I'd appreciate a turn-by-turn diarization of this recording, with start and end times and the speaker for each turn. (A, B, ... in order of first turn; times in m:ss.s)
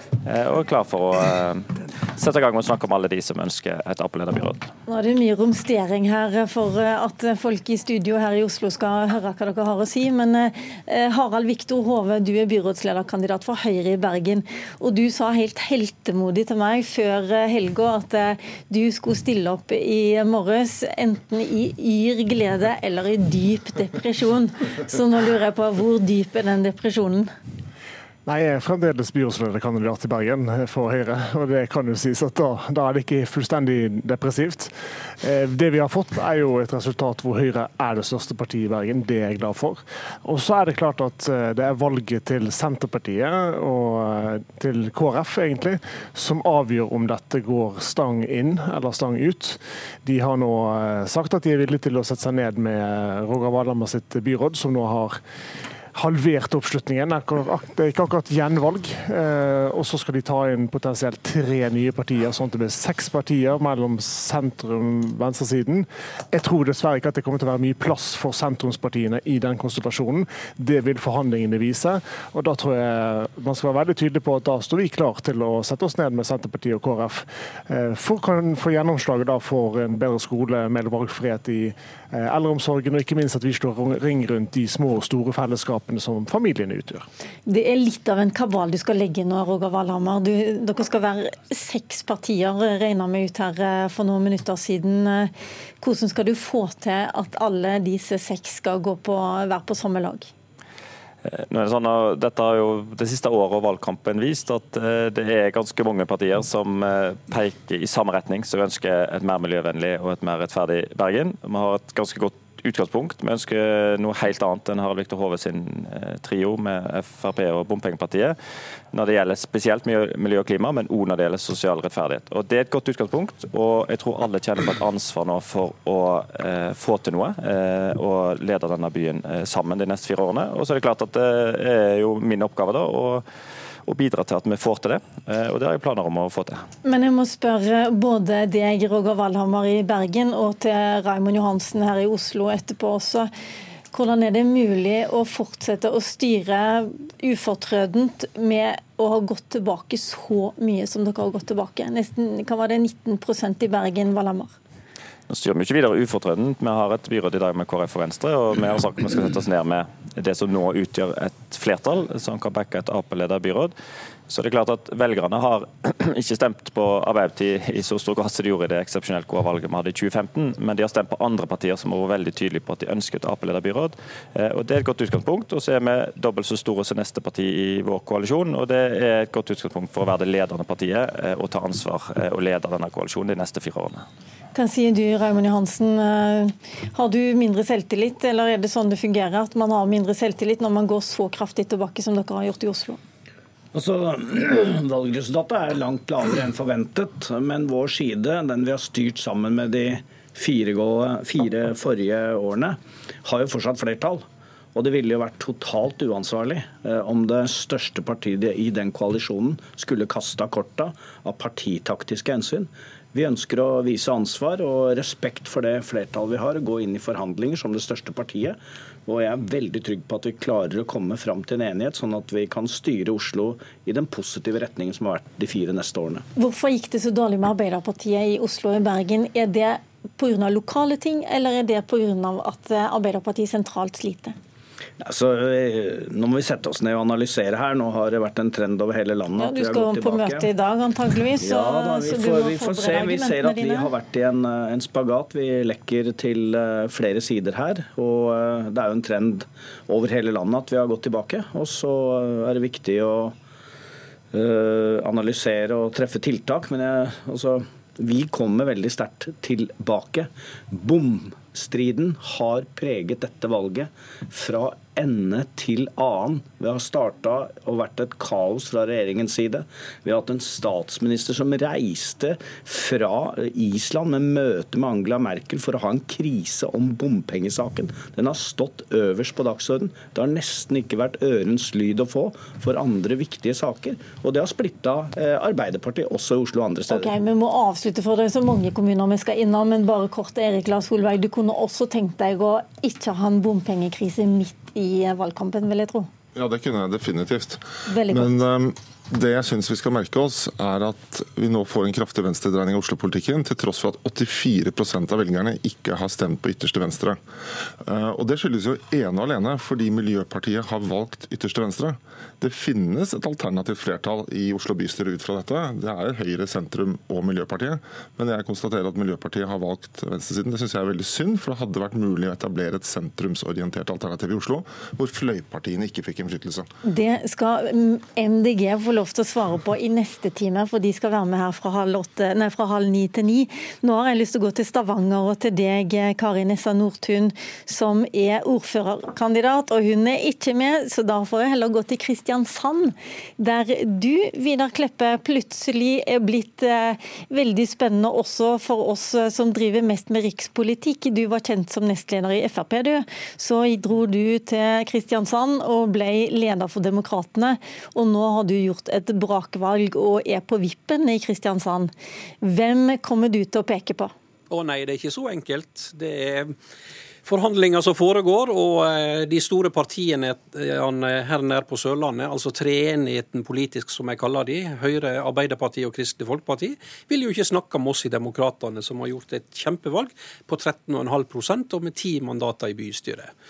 0:00.2-0:04.7 A
0:04.9-0:27.3 B
0:28.2-0:34.7 C
0:35.2-0:55.2 C
0:55.9-1:27.0 C
1:27.5-1:40.3 B
1:41.5-1:58.4 A
1:58.9-2:13.2 A
2:13.8-2:16.6 A
2:16.8-2:23.3 B
2:23.9-2:34.5 B
2:35.3-2:43.7 A
2:44.3-3:04.0 A
3:04.5-3:13.0 B
3:13.7-3:24.2 D
3:24.7-3:46.2 D
3:46.4-3:54.3 B
3:55.0-4:00.5 D
3:59.4-4:03.9 B
4:01.4-4:13.3 D
4:14.3-4:47.1 D
4:46.9-4:56.1 B
4:56.3-5:07.2 E
4:57.9-4:58.3 B
5:07.8-5:26.7 E
5:26.8-6:01.9 B
6:02.4-6:04.1 B
6:04.5-6:06.5 F
6:07.2-6:23.3 F